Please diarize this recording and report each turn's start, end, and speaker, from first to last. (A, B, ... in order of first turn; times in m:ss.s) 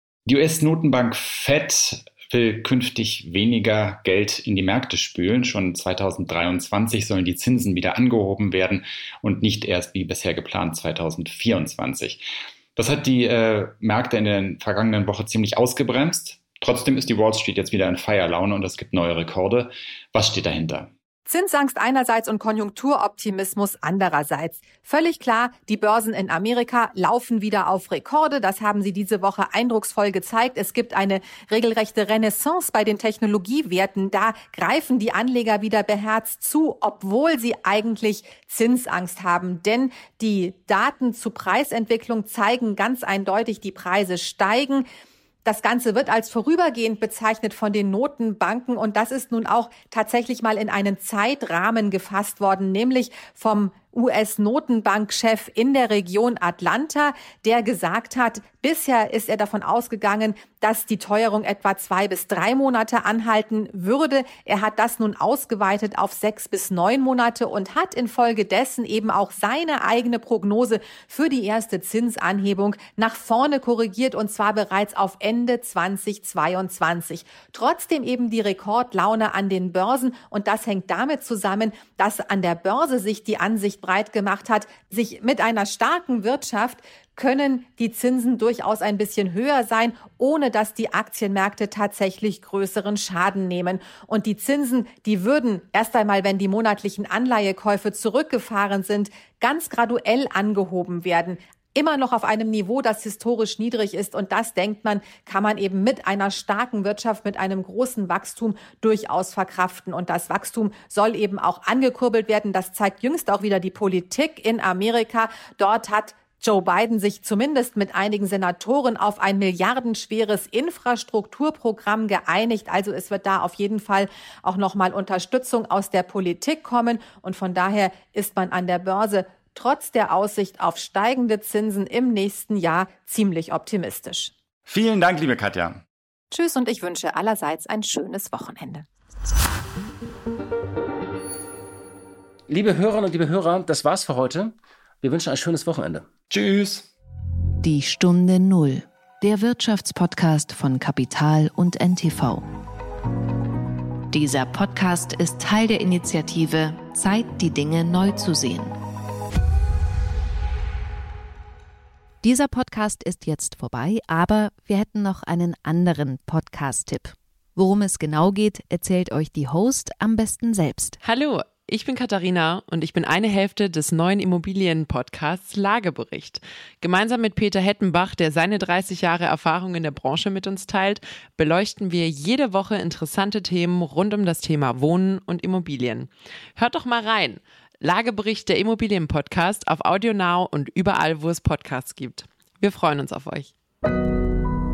0:00.3-0:20.9 A
0:21.3-0:44.9 B
0:45.4-2:14.3 B
2:14.7-2:15.8 A
2:16.3-2:18.8 B
2:22.5-2:26.0 C
2:26.3-2:26.9 A
2:27.6-2:32.4 D
2:34.1-2:38.8 D
2:42.2-2:51.0 D
2:51.0-3:13.5 E